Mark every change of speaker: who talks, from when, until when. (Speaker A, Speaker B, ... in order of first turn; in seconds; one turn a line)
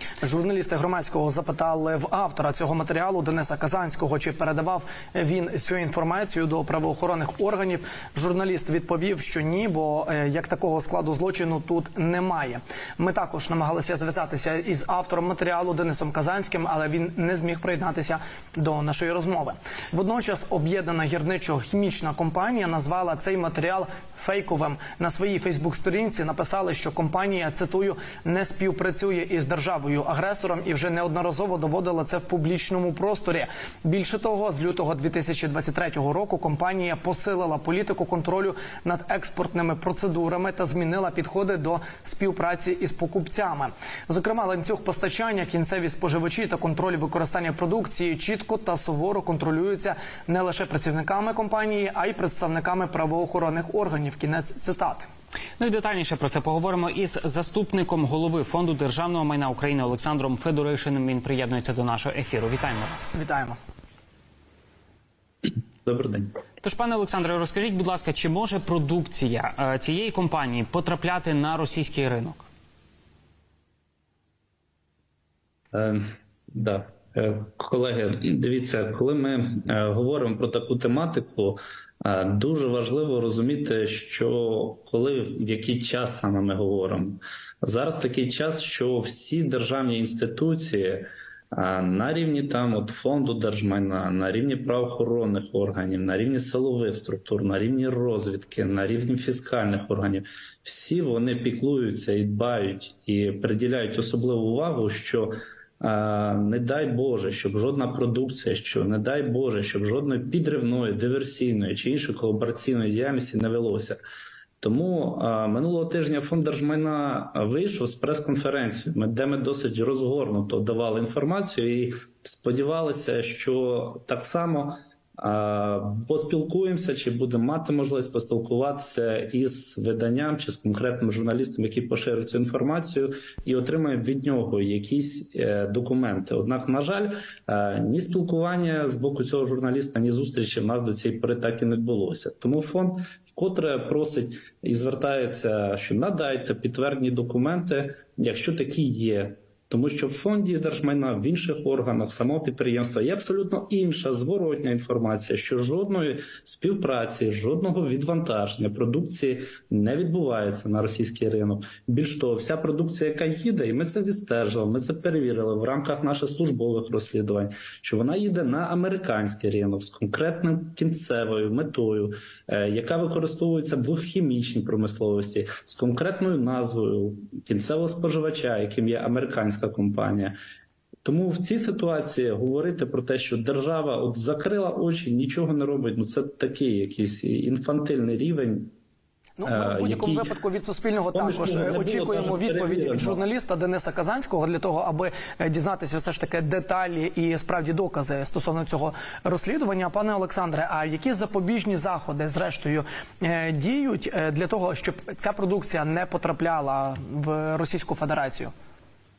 Speaker A: 0.2-55.1
Speaker B: 55.6-63.1
Speaker A: 63.1-63.6
Speaker C: 65.8-66.3
Speaker B: 66.6-72.5
Speaker C: 75.7-114.0
Speaker C: 114.6-180.3
Speaker C: 181.0-188.7
Speaker A: 189.4-208.5
Speaker C: 189.4-190.3
Speaker C: 191.1-193.2